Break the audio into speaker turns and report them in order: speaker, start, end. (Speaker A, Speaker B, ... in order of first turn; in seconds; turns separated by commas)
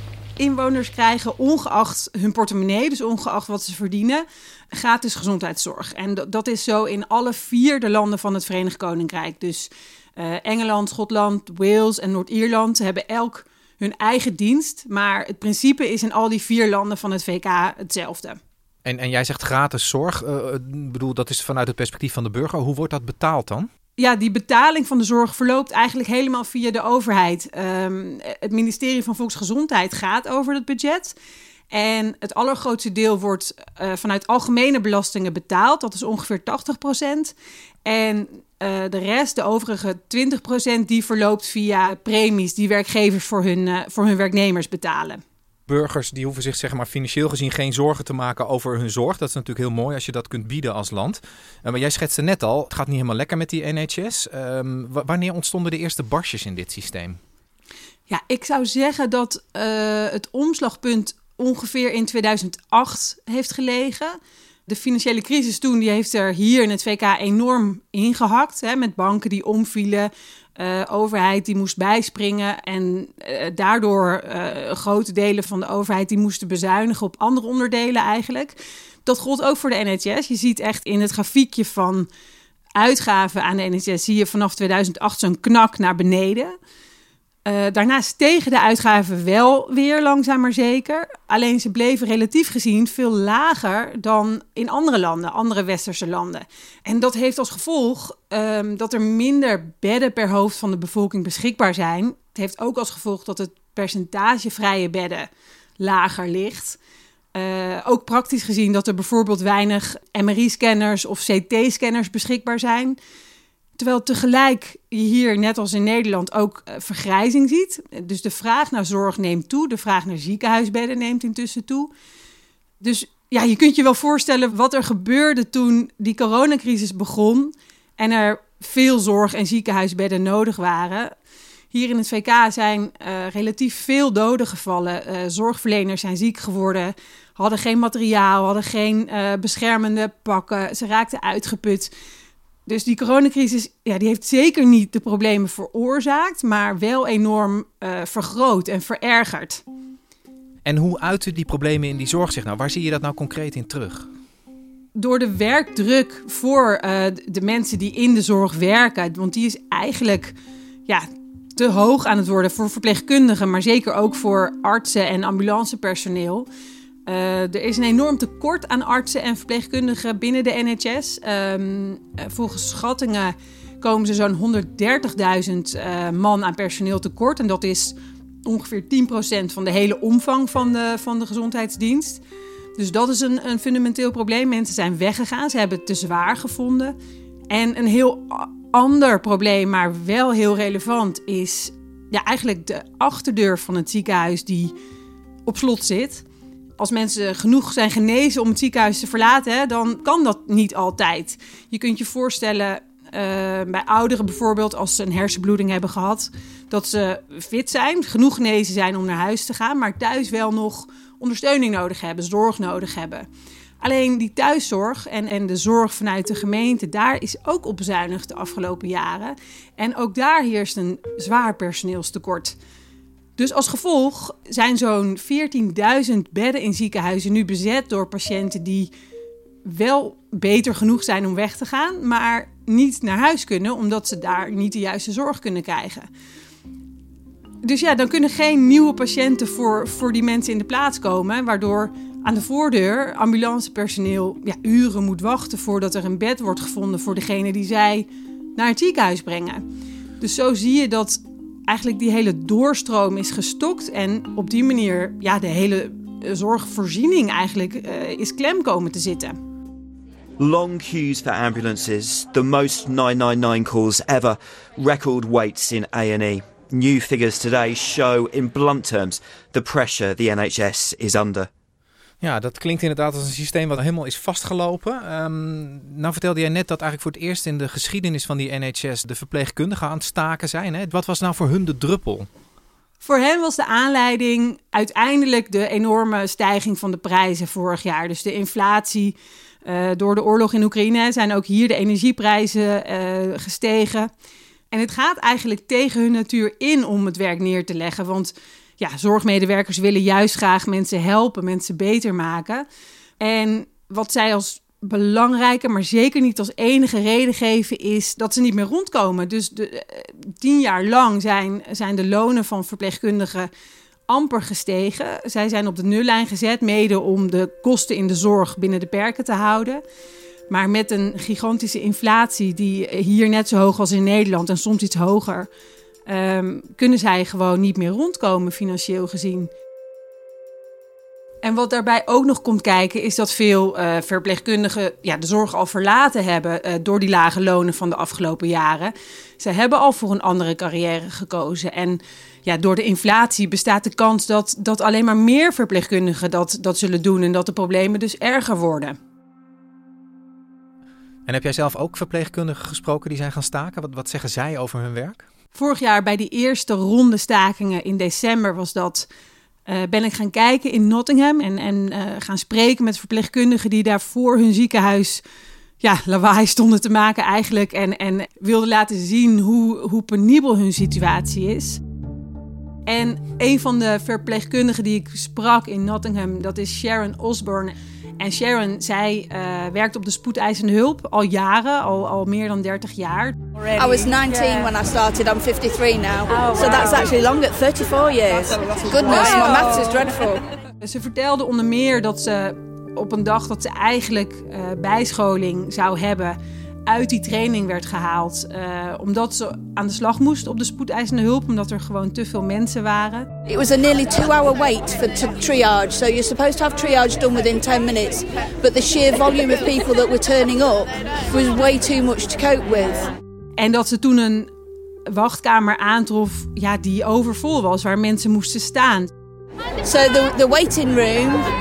Speaker A: 0.4-18.4, Speaker B: 18.9-23.7, Speaker A: 24.0-31.2, Speaker A: 31.7-37.3, Speaker A: 37.9-45.2, Speaker B: 45.7-57.2, Speaker A: 58.1-64.2, Speaker A: 64.7-82.1, Speaker A: 82.8-86.5, Speaker A: 87.5-106.8, Speaker A: 107.3-113.0, Speaker A: 113.8-121.9, Speaker A: 122.8-131.1, Speaker A: 131.7-141.9, Speaker A: 142.7-149.6, Speaker B: 150.7-154.1, Speaker A: 154.9-160.3, Speaker A: 160.9-166.5, Speaker A: 167.1-182.2, Speaker A: 182.8-186.9, Speaker A: 187.5-194.7, Speaker A: 195.5-196.2, Speaker A: 196.8-213.3, Speaker A: 213.8-222.6, Speaker A: 223.4-228.9, Speaker A: 229.6-236.1, Speaker A: 237.6-249.7, Speaker A: 250.2-259.4, Speaker C: 260.4-271.5, Speaker B: 272.2-282.3, Speaker A: 283.0-294.1, Speaker A: 294.7-302.7, Speaker A: 303.2-313.5, Speaker A: 314.1-319.8, Speaker A: 320.5-325.5, Speaker A: 326.1-329.5, Speaker A: 331.4-349.0, Speaker B: 351.3-355.2, Speaker A: 355.6-359.1, Speaker A: 359.7-365.2, Speaker A: 365.8-371.8, Speaker A: 372.9-384.2, Speaker D: 383.8-390.5, Speaker A: 390.8-403.3, Speaker D: 403.5-413.1, Speaker A: 413.6-414.5, Speaker A: 415.1-419.1, Speaker D: 419.8-421.5